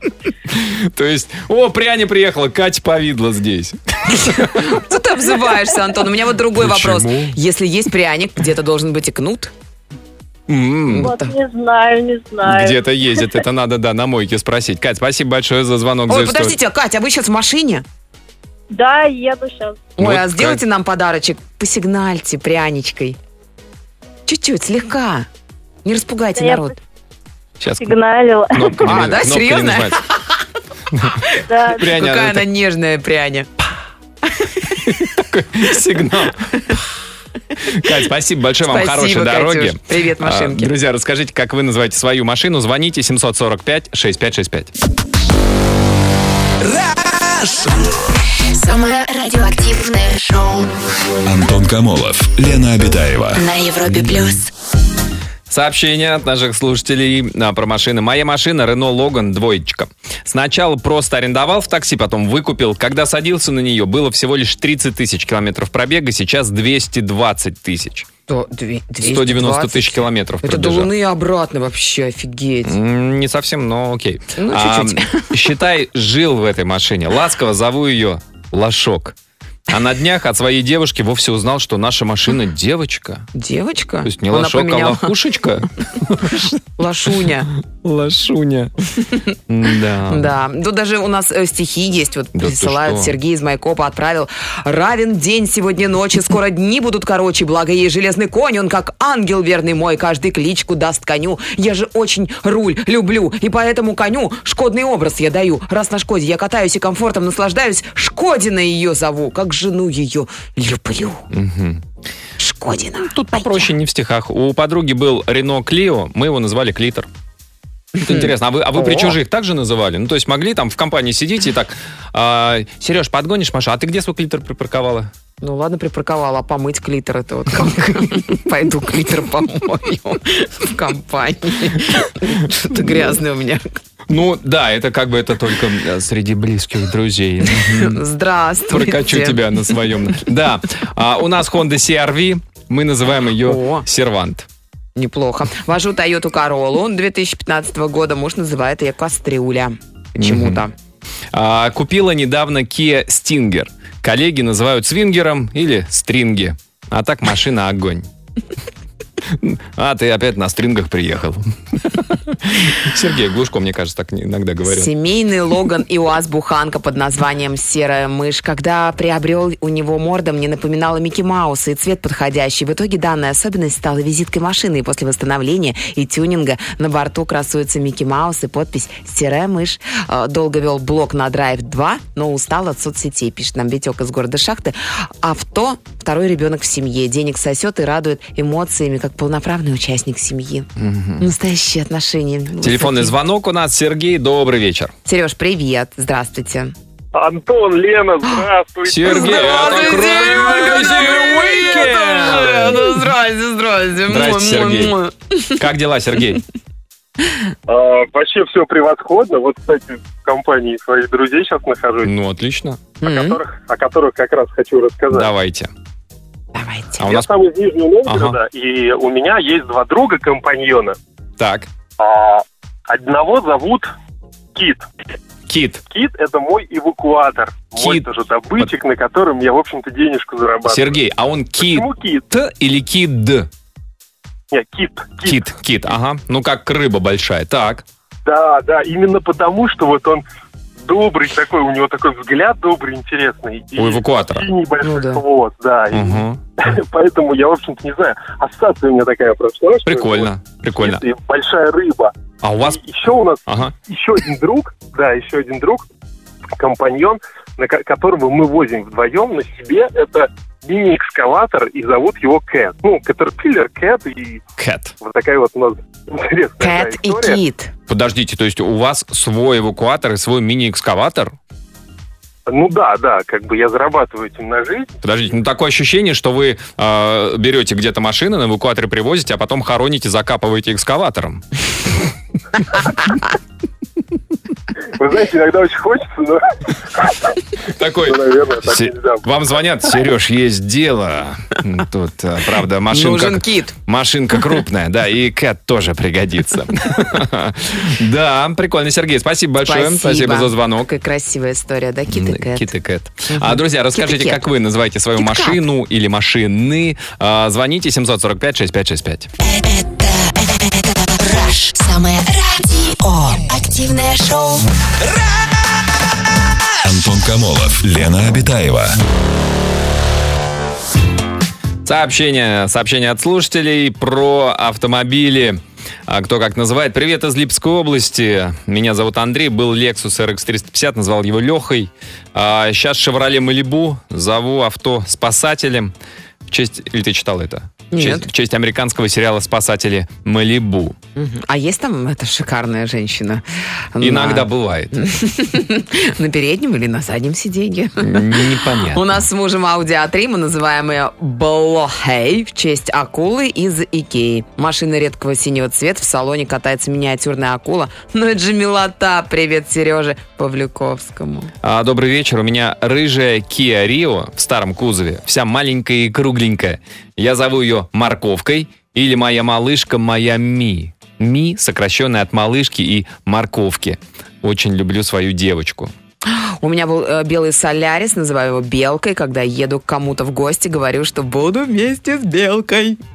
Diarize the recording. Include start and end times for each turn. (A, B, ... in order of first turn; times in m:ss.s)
0:00.5-0:04.8 A
0:04.4-0:09.5 B
0:06.5-0:07.4 A
0:10.5-0:11.1 A
0:10.9-0:11.3 B
0:11.0-0:12.8 C
0:12.4-0:16.6 A
0:16.1-0:17.8 B
0:18.7-0:19.9 C
0:20.0-0:23.2 B
0:20.0-0:20.6 A
0:24.2-0:25.3 B
0:25.8-0:26.8 B
0:26.4-0:26.7 C
0:27.6-0:28.0 A
0:27.8-0:28.8 C
0:28.5-0:30.0 A
0:28.8-0:30.4 B
0:30.9-0:32.5 A
0:31.1-0:33.5 B
0:31.5-0:31.8 C
0:34.3-0:35.1 B
0:34.8-0:36.7 A
0:37.6-0:44.7 A
0:38.7-0:40.7 B
0:48.6-0:50.7 D
0:51.2-0:53.4 E
0:53.3-0:54.5 D
0:55.5-1:08.1 A
1:08.3-1:12.8 B
1:09.0-1:10.9 A
1:12.6-1:19.1 A
1:14.4-1:15.5 B
1:19.7-1:23.3 A
1:23.3-1:25.1 B
1:24.0-1:26.6 A
1:26.8-1:27.5 B
1:27.5-1:28.7 A
1:29.5-1:30.3 A
1:30.1-1:51.2 B
1:32.3-1:33.1 A
1:51.3-1:51.8 A
1:52.4-1:53.7 B
1:53.0-1:57.1 A
1:58.0-1:59.2 B
1:58.0-2:05.1 A
2:05.4-2:13.8 B
2:12.7-2:13.0 A
2:14.1-2:18.0 A
2:17.5-2:19.4 B
2:18.7-2:24.5 A
2:23.4-2:23.8 B
2:25.0-2:30.7 B
2:30.2-2:30.6 A
2:31.3-2:38.1 A
2:39.2-2:44.9 A
2:44.6-3:10.7 B
3:10.8-3:11.3 A
3:11.2-3:13.1 B
3:12.6-3:14.9 A
3:15.0-3:16.7 B
3:17.1-3:21.7 F
3:18.8-3:23.1 A
3:19.0-3:25.6 B
3:24.1-3:25.0 A
3:25.5-3:26.4 A
3:27.7-3:32.1 F
3:32.0-3:32.9 A
3:33.0-3:35.3 F
3:33.0-3:33.4 B
3:35.1-3:35.7 A
3:36.5-3:37.1 B
3:37.0-3:37.3 A
3:37.0-3:40.9 F
3:38.0-3:38.4 A
3:41.4-3:41.7 A
3:42.0-3:43.9 F
3:44.5-3:44.9 F
3:45.5-3:45.8 A
3:45.9-3:51.0 F
3:47.7-3:48.7 A
3:50.6-3:53.5 A
3:51.6-3:52.2 F
3:54.5-3:55.4 F
3:55.2-3:57.8 A
3:58.2-4:00.2 F
4:00.8-4:15.8 F
4:03.8-4:04.5 A
4:04.8-4:05.2 B
4:05.9-4:06.4 A
4:09.8-4:11.0 A
4:12.4-4:12.8 A
4:13.4-4:13.7 A
4:16.6-4:24.4 F
4:24.6-4:25.0 A
4:25.0-4:27.4 F
4:26.6-4:27.7 B
4:27.9-4:31.3 A
4:32.5-4:34.9 F
4:35.0-4:41.4 A
4:45.0-4:47.4 F
4:47.7-5:00.9 A
4:48.0-4:50.0 F
4:52.9-4:53.8 B
4:59.6-5:02.7 B
5:02.1-5:09.3 A
5:03.3-5:04.4 B
5:05.2-5:05.6 B
5:09.4-5:14.6 D
5:16.8-5:19.0 E
5:21.8-5:35.9 A
5:36.5-5:41.0 A
5:37.9-5:38.3 B
5:41.2-6:01.5 B
5:44.0-5:44.9 A
5:48.0-5:49.1 A
6:01.6-6:15.9 A
6:16.2-6:23.0 B